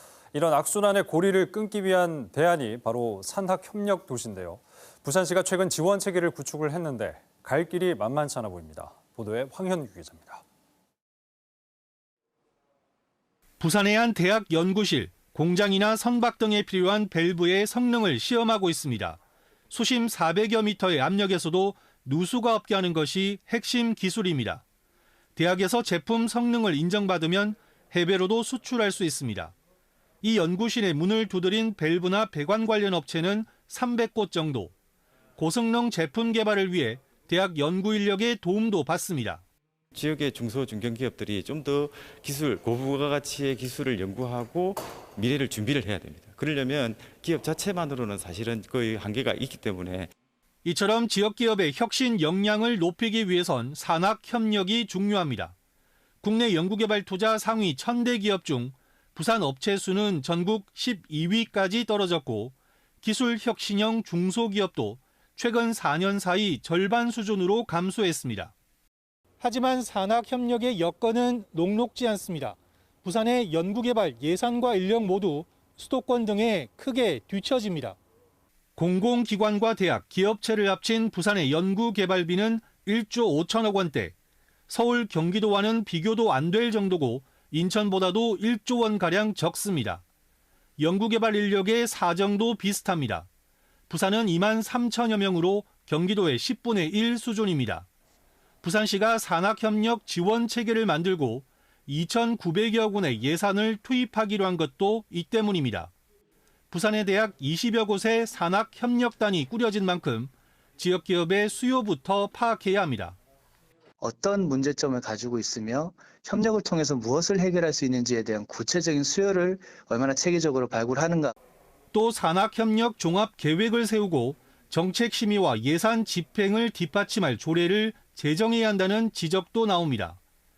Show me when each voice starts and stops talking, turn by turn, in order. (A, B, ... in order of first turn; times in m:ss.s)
0:00.3-0:10.4 A
0:13.6-0:19.2 B
0:19.7-0:24.6 B
0:25.4-0:29.5 B
0:30.2-0:34.7 B
0:35.4-0:39.4 B
0:39.9-0:50.1 C
0:50.6-0:55.5 B
0:56.2-1:08.5 B
1:09.4-1:18.0 B
1:18.8-1:24.1 B
1:24.7-1:30.0 B
1:30.8-1:33.3 B
1:33.9-1:37.9 B
1:38.6-1:45.9 B
1:46.7-1:53.2 B
1:54.0-2:01.3 D
2:01.9-2:10.2 B